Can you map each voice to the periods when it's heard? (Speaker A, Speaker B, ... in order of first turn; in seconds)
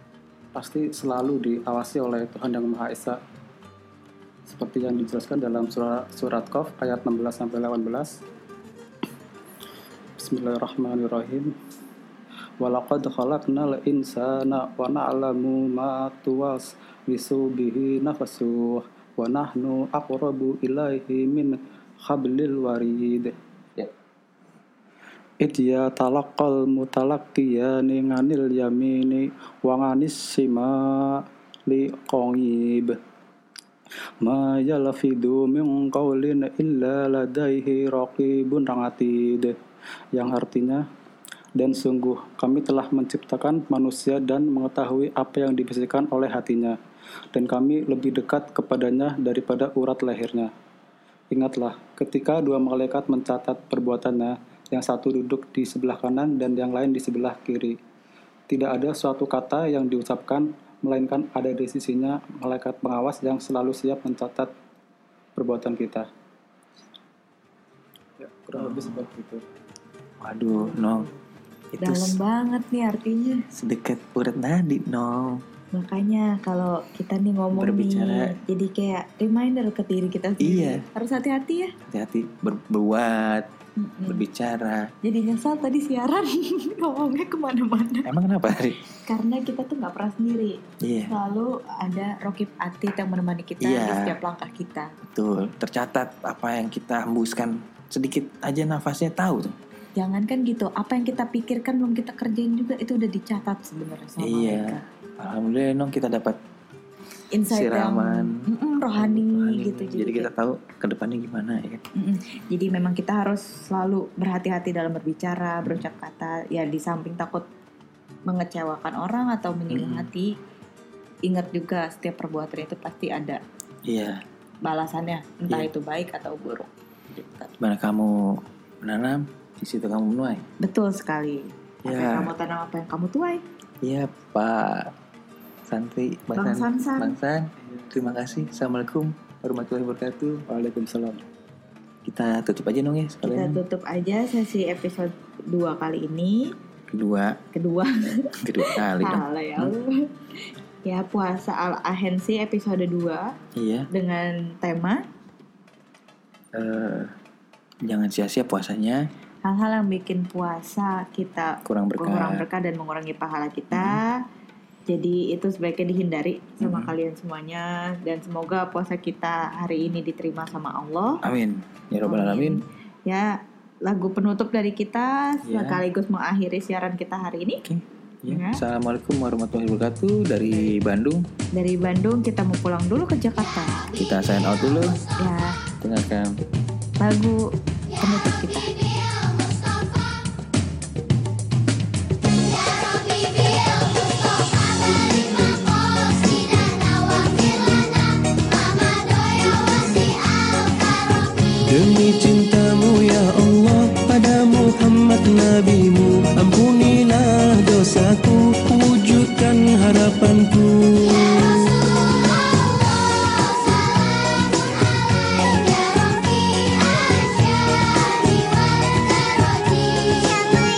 Speaker A: 0.5-3.2, 4.5-8.2, 10.2-11.5, 12.6-23.3, 25.4-33.0, 34.2-39.5, 40.1-40.9, 41.6-46.8, 47.3-50.5, 51.3-57.8, 58.5-64.5, 65.3-66.1, 68.2-69.4, 140.5-141.2
Speaker B: 68.6-69.0, 70.2-71.1, 71.8-72.2, 73.5-75.4, 77.5-78.3, 80.4-80.8, 81.9-83.5, 84.1-84.9, 88.0-88.8, 90.8-91.1, 93.6-94.1, 95.0-99.5, 104.2-106.4, 107.5-108.4, 109.0-111.8, 119.7-120.1, 123.8-124.2, 127.6-130.4, 131.8-132.3, 133.8-134.9, 135.7-140.4, 142.1-143.6, 146.9-147.4, 148.4-149.7, 153.6-153.9, 156.5-157.1, 157.8-159.1, 161.7-162.4, 163.7-164.0, 166.6-166.9, 171.2-172.6, 175.4-175.8, 177.6-181.2, 184.0-185.0, 185.8-186.4
Speaker C: 70.5-71.1, 71.8-73.4, 75.7-81.7, 83.8-84.2, 85.0-88.1, 89.1-94.9, 100.0-104.8, 107.3-110.3, 112.0-117.4, 118.3-120.3, 121.2-123.4, 124.6-127.5, 130.6-133.4, 136.3-137.1, 143.2-146.5, 147.5-150.1, 150.8-153.3, 153.9-155.0, 159.4-164.2, 164.9-171.2, 172.1-177.6, 178.3-178.6, 181.6-183.9, 185.2-185.6, 187.0-187.4, 188.0-188.7
Speaker D: 201.7-211.4